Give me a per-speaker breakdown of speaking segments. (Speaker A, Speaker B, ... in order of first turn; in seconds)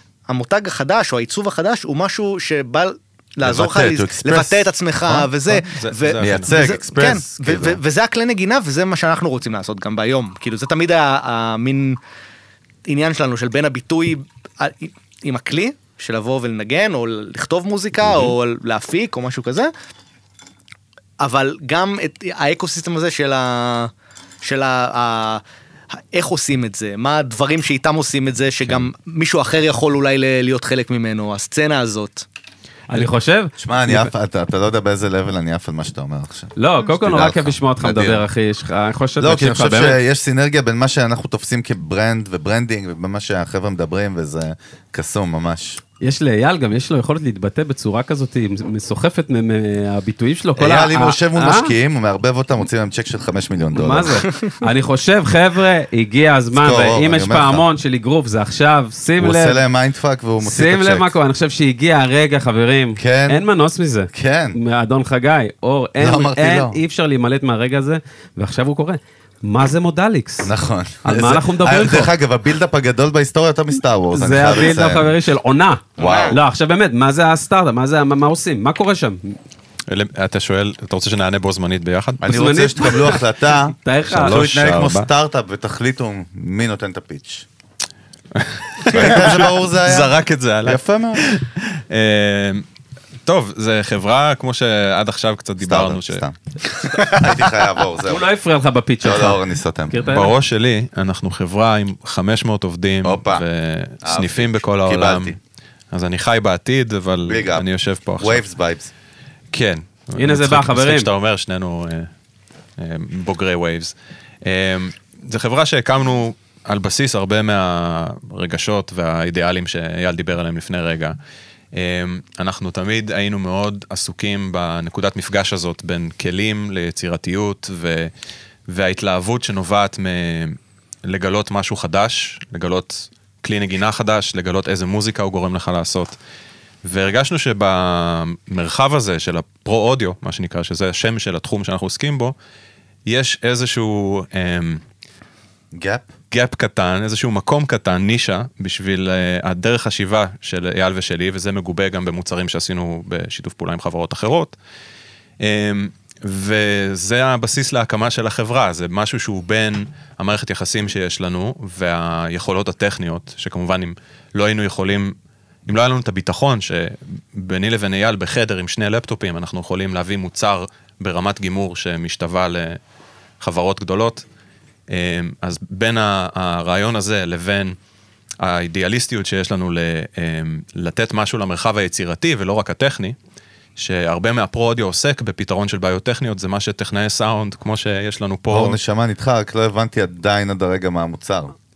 Speaker A: 0.3-12.0, 12.9-19.7, 21.2-23.9, 24.4-25.4, 26.1-32.3, 76.0-76.4, 96.8-97.4
Speaker B: 3.4-5.6, 6.2-7.8, 18.1-18.3, 33.6-38.3, 39.2-45.8, 50.6-54.3, 56.6-57.6, 59.2-61.1, 63.0-63.4, 64.1-64.6, 66.0-66.8, 70.4-75.1, 76.0-76.4, 82.2-87.5, 88.9-91.3, 95.6-96.3, 97.0-98.2, 99.0-100.0, 103.0-103.4, 104.0-105.4, 107.3-107.7, 108.2-108.9, 145.7-146.1, 188.5-191.6
Speaker C: 5.6-6.8, 79.9-82.4, 84.1-85.1, 88.3-92.7, 93.3-96.2, 100.1-105.4, 105.9-108.4, 109.5-112.1, 112.8-113.9, 114.5-121.2, 121.7-128.1, 128.7-136.2, 136.8-142.3, 143.1-144.8, 146.3-154.5, 155.4-165.2, 165.7-172.8, 173.4-174.2, 174.9-177.8, 178.4-183.2, 183.8-188.8
Speaker D: 32.9-34.1, 36.6-40.0, 46.0-51.7, 53.7-59.6, 60.4-70.5, 71.0-72.1, 74.1-79.4, 82.3-83.2, 83.8-84.4, 98.0-100.3, 110.2-111.1